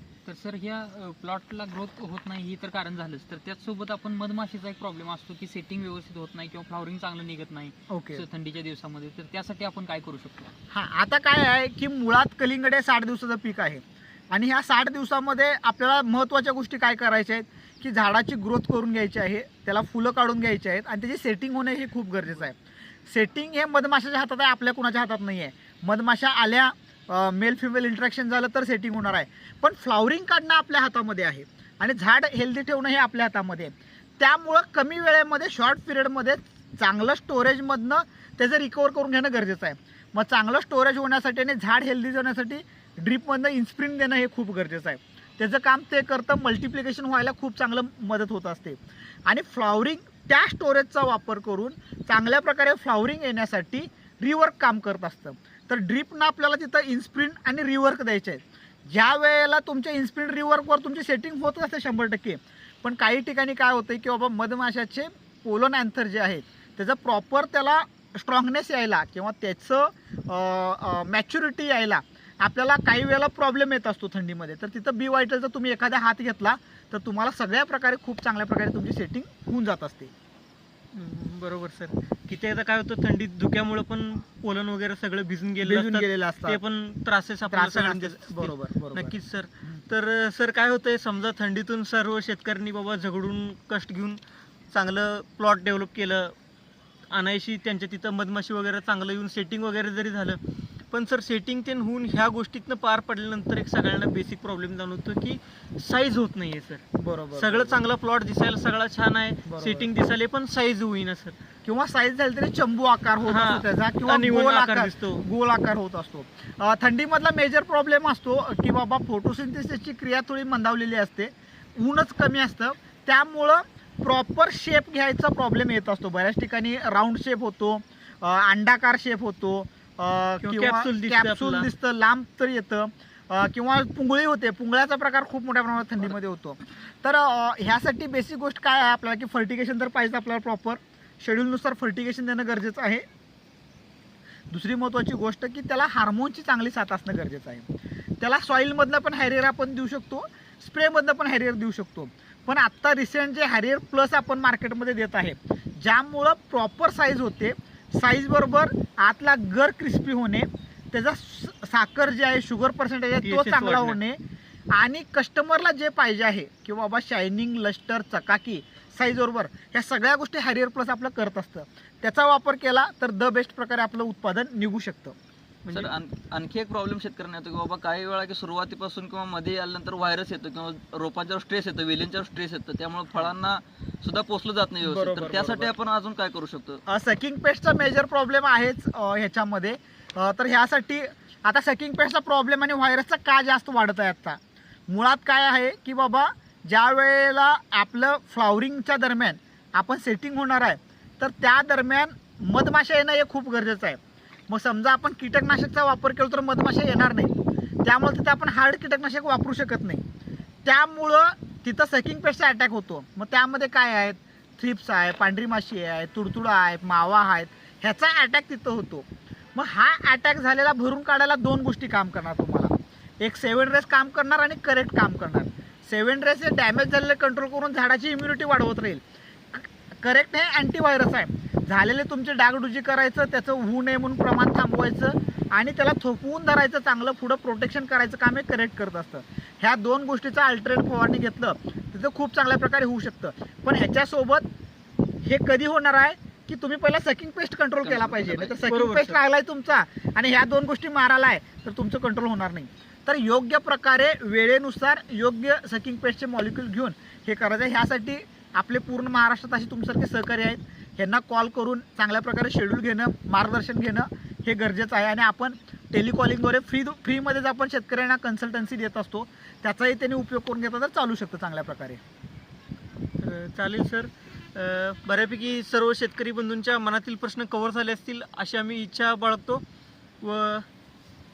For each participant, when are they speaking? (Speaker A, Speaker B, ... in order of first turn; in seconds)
Speaker A: 0.2-10.5
Speaker B: 7.9-8.2, 10.7-22.6, 23.1-80.1, 85.6-86.6, 87.5-89.8, 107.0-107.8, 109.4-109.8, 111.6-143.0, 144.5-147.7, 148.2-164.2, 164.7-175.1, 184.8-185.7, 186.9-210.0, 210.6-244.5, 245.2-272.0
Speaker C: 80.9-94.2, 94.7-96.3, 97.1-100.4, 100.9-111.4, 113.2-115.2, 130.4-131.7, 163.2-164.0, 175.7-175.9, 248.7-249.2, 273.2-279.6, 280.2-280.6
Speaker D: 175.7-186.8, 247.8-248.6